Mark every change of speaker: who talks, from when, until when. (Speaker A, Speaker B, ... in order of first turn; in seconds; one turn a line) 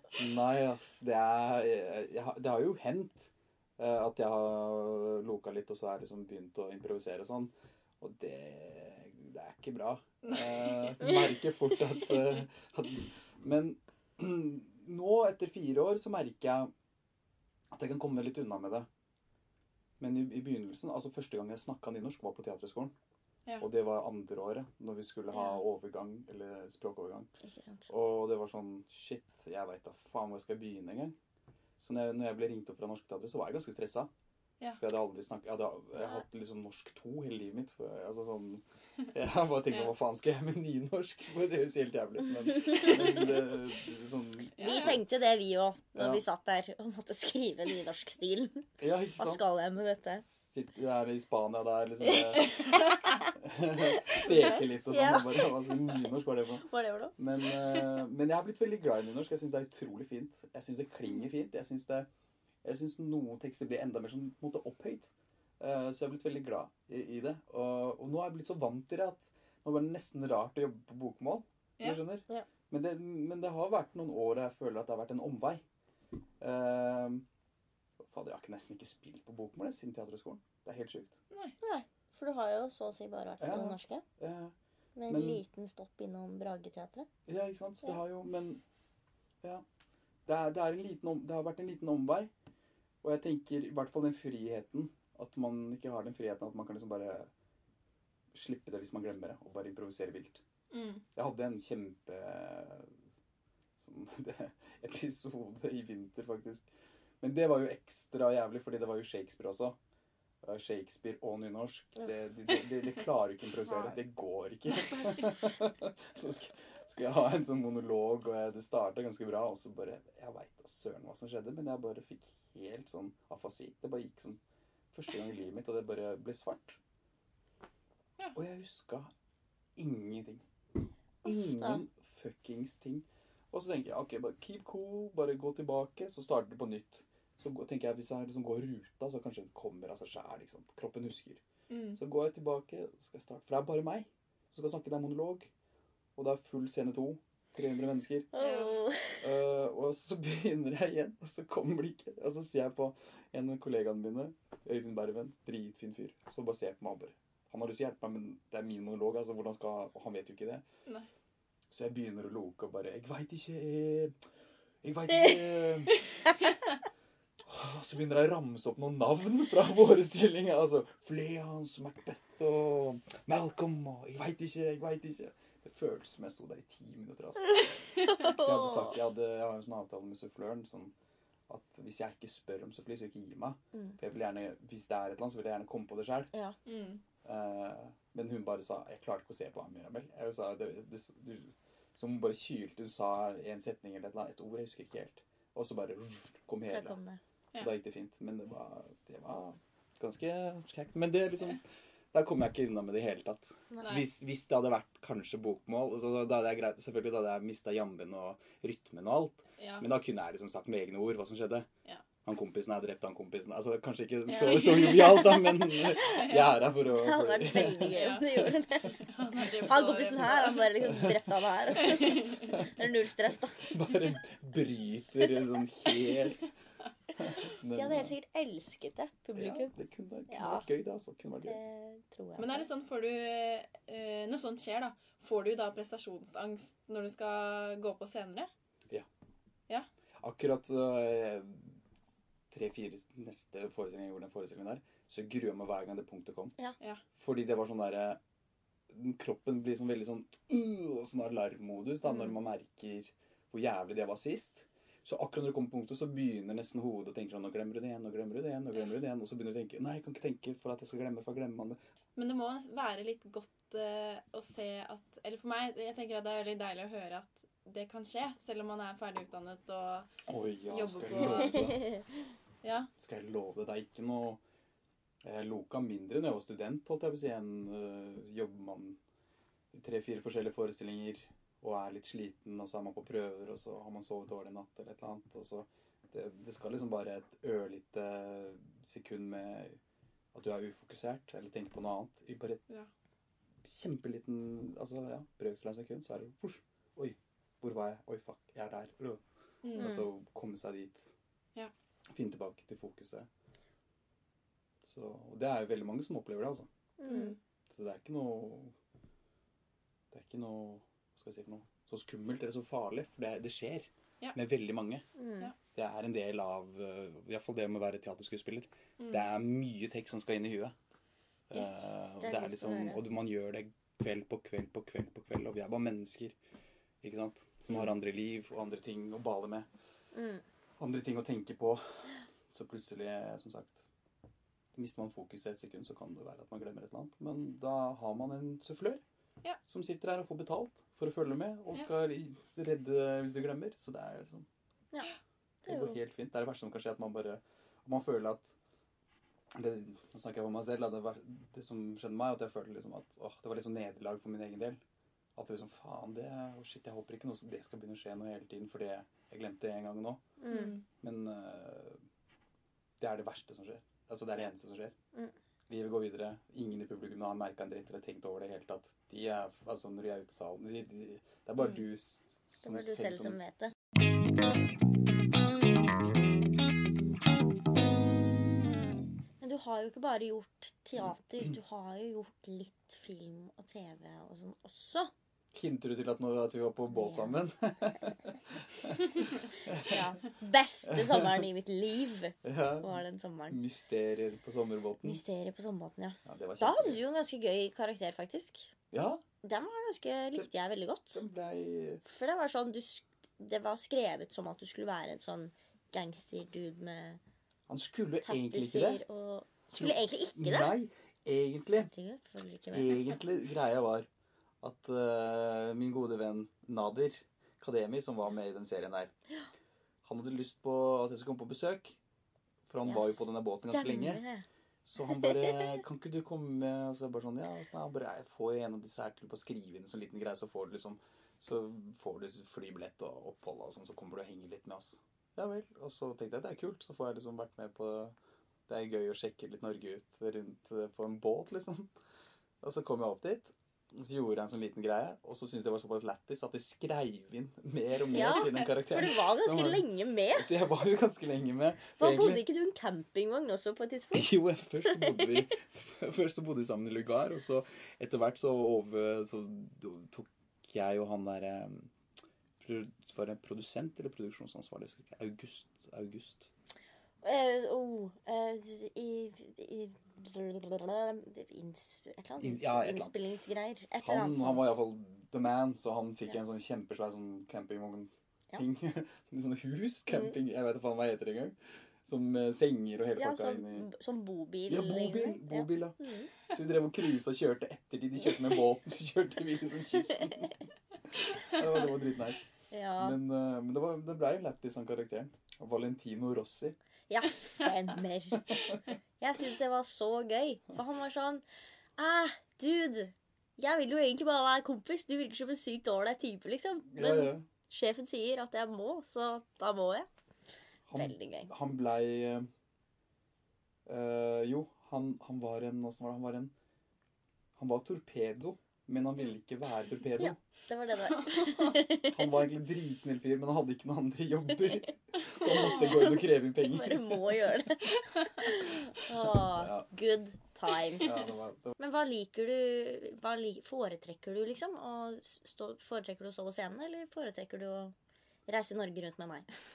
Speaker A: 0.1-16.7
Speaker A: 17.7-18.9
Speaker A: 20.0-22.9
Speaker A: 23.6-27.3
Speaker B: 25.3-25.6
Speaker B: 27.4-27.9
Speaker A: 27.9-31.1
Speaker A: 31.8-34.1
Speaker A: 34.8-45.0
Speaker C: 44.6-45.0
Speaker B: 44.6-50.2
Speaker A: 46.0-46.2
Speaker A: 48.8-49.4
Speaker A: 50.2-52.8
Speaker B: 52.1-53.3
Speaker A: 53.3-62.1
Speaker B: 53.8-55.5
Speaker B: 56.6-57.1
Speaker A: 62.6-75.6
Speaker A: 76.4-77.2
Speaker A: 78.0-81.2
Speaker C: 81.3-81.5
Speaker B: 81.6-84.0
Speaker A: 83.4-84.5
Speaker B: 85.0-87.1
Speaker A: 85.1-85.4
Speaker A: 87.2-88.6
Speaker A: 90.2-92.3
Speaker A: 93.0-97.3
Speaker A: 98.3-100.4
Speaker C: 100.7-101.0
Speaker A: 101.1-102.9
Speaker A: 103.8-106.7
Speaker A: 107.2-109.8
Speaker A: 110.4-124.4
Speaker A: 124.9-126.8
Speaker A: 128.3-129.1
Speaker A: 129.8-130.4
Speaker A: 131.2-141.4
Speaker B: 131.3-131.8
Speaker C: 141.7-142.0
Speaker A: 141.9-145.5
Speaker A: 146.2-148.3
Speaker B: 148.3-149.2
Speaker C: 148.4-148.8
Speaker A: 149.2-160.6
Speaker A: 161.7-164.2
Speaker A: 164.8-166.0
Speaker A: 167.4-180.9
Speaker B: 178.1-178.9
Speaker A: 181.5-186.3
Speaker C: 186.7-187.0
Speaker A: 187.2-197.0
Speaker B: 196.7-197.2
Speaker A: 197.6-211.7
Speaker C: 209.6-209.9
Speaker A: 212.2-218.2
Speaker C: 214.3-215.3
Speaker C: 215.9-216.7
Speaker B: 216.8-219.1
Speaker C: 217.9-221.0
Speaker B: 219.6-223.8
Speaker A: 220.9-221.2
Speaker C: 221.8-222.6
Speaker A: 223.6-226.5
Speaker A: 227.2-228.1
Speaker B: 227.7-229.7
Speaker A: 229.3-231.6
Speaker B: 230.3-230.7
Speaker B: 231.4-232.7
Speaker C: 232.4-238.5
Speaker A: 240.2-241.8
Speaker A: 242.5-246.5
Speaker A: 247.1-248.2
Speaker A: 248.9-261.8
Speaker C: 262.1-270.1
Speaker A: 270.3-271.9
Speaker C: 270.7-271.8
Speaker B: 271.7-272.0
Speaker C: 272.6-272.9
Speaker A: 273.0-274.4
Speaker A: 275.2-279.0
Speaker A: 279.7-289.8
Speaker A: 290.3-292.6
Speaker A: 293.6-299.2
Speaker C: 299.6-300.0
Speaker A: 299.7-301.1
Speaker B: 299.8-300.1
Speaker A: 302.1-303.3
Speaker A: 304.8-306.7
Speaker B: 307.0-307.4
Speaker C: 307.1-307.4
Speaker A: 307.7-308.7
Speaker A: 310.1-315.0
Speaker B: 315.2-315.5
Speaker A: 315.7-320.7
Speaker C: 319.0-319.2
Speaker A: 321.5-326.4
Speaker B: 321.6-323.0
Speaker A: 327.0-329.7
Speaker B: 330.1-330.4
Speaker A: 330.8-333.9
Speaker A: 334.7-339.0
Speaker A: 339.6-344.4
Speaker B: 345.6-346.0
Speaker A: 345.6-348.6
Speaker A: 349.5-354.8
Speaker A: 355.3-360.2
Speaker B: 360.4-360.8
Speaker C: 360.5-360.8
Speaker A: 361.0-362.0
Speaker A: 363.0-364.9
Speaker A: 365.7-373.4
Speaker B: 372.6-373.7
Speaker B: 379.4-385.1
Speaker A: 385.5-390.0
Speaker B: 386.9-387.4
Speaker B: 389.8-393.6
Speaker A: 390.9-391.4
Speaker A: 392.4-395.2
Speaker B: 395.0-398.7
Speaker A: 396.2-397.0
Speaker A: 398.9-399.2
Speaker B: 399.4-401.2
Speaker A: 401.1-402.0
Speaker B: 402.0-407.2
Speaker A: 407.7-409.0
Speaker B: 408.2-410.7
Speaker A: 409.7-411.9
Speaker B: 411.9-413.2
Speaker A: 412.7-414.1
Speaker A: 414.6-419.1
Speaker A: 420.0-422.0
Speaker A: 422.7-424.2
Speaker B: 422.8-424.4
Speaker A: 424.8-438.1
Speaker B: 425.1-425.5
Speaker A: 438.7-441.9
Speaker A: 442.6-452.4
Speaker B: 448.1-450.5
Speaker C: 448.1-448.7
Speaker B: 452.0-454.3
Speaker A: 454.1-461.9
Speaker B: 454.8-455.3
Speaker A: 462.6-466.5
Speaker B: 467.2-474.8
Speaker A: 472.4-473.2
Speaker A: 474.0-483.9
Speaker B: 480.1-480.3
Speaker B: 483.1-486.3
Speaker A: 484.7-490.6
Speaker A: 491.1-492.5
Speaker B: 492.7-493.2
Speaker A: 493.0-496.8
Speaker B: 497.1-498.7
Speaker B: 499.2-501.4
Speaker B: 502.0-510.1
Speaker A: 506.9-507.4
Speaker A: 510.9-512.5
Speaker B: 510.9-511.5
Speaker A: 513.9-516.5
Speaker A: 517.5-520.4
Speaker B: 520.2-522.4
Speaker C: 521.0-521.8
Speaker A: 522.1-527.5
Speaker B: 525.4-537.9
Speaker A: 529.2-529.9
Speaker A: 531.0-531.7
Speaker B: 538.5-539.5